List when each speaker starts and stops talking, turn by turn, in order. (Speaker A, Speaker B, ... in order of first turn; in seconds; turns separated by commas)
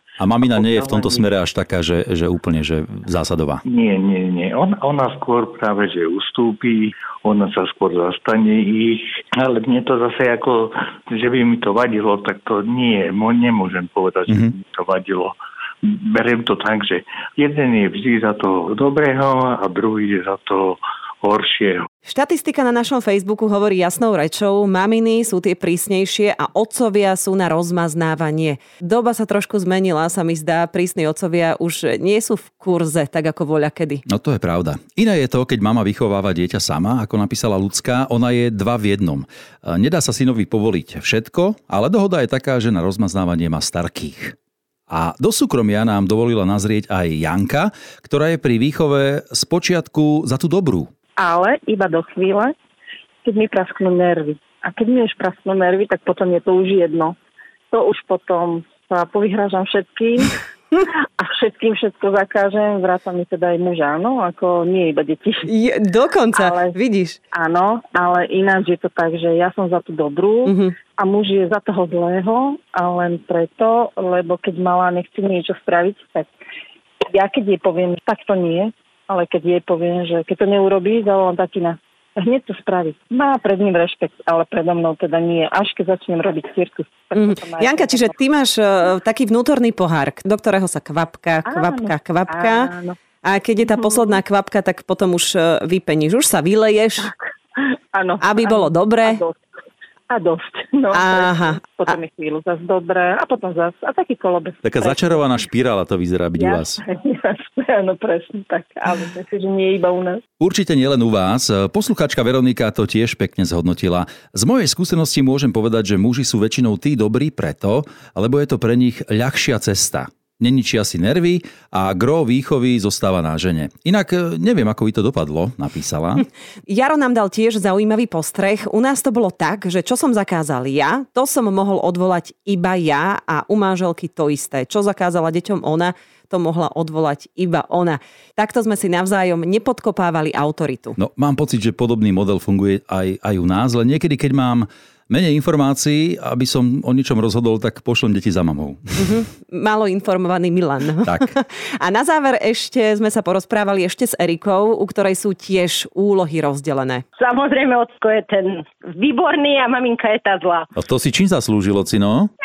Speaker A: 0.2-3.6, Speaker B: 0.4-1.2, Speaker B: 3.6-21.9, Speaker C: 22.1-34.0, Speaker A: 34.1-44.4, Speaker A: 44.9-50.9, Speaker D: 51.2-52.5, Speaker D: 53.2-57.1, Speaker D: 57.7-60.3, Speaker D: 61.2-65.4, Speaker C: 65.5-67.2, Speaker D: 66.3-66.7, Speaker D: 67.3-76.3, Speaker C: 70.5-70.7, Speaker D: 77.1-88.1, Speaker C: 87.1-92.7, Speaker D: 91.5-93.0, Speaker C: 93.2-97.1, Speaker D: 97.9-99.4, Speaker C: 98.2-99.2, Speaker D: 100.1-105.4, Speaker C: 100.9-102.0, Speaker A: 104.6-106.8, Speaker D: 106.3-110.2, Speaker A: 110.4-126.2, Speaker C: 126.7-140.9, Speaker A: 141.0-149.1, Speaker C: 149.0-157.0, Speaker E: 157.2-160.7, Speaker A: 160.8-162.3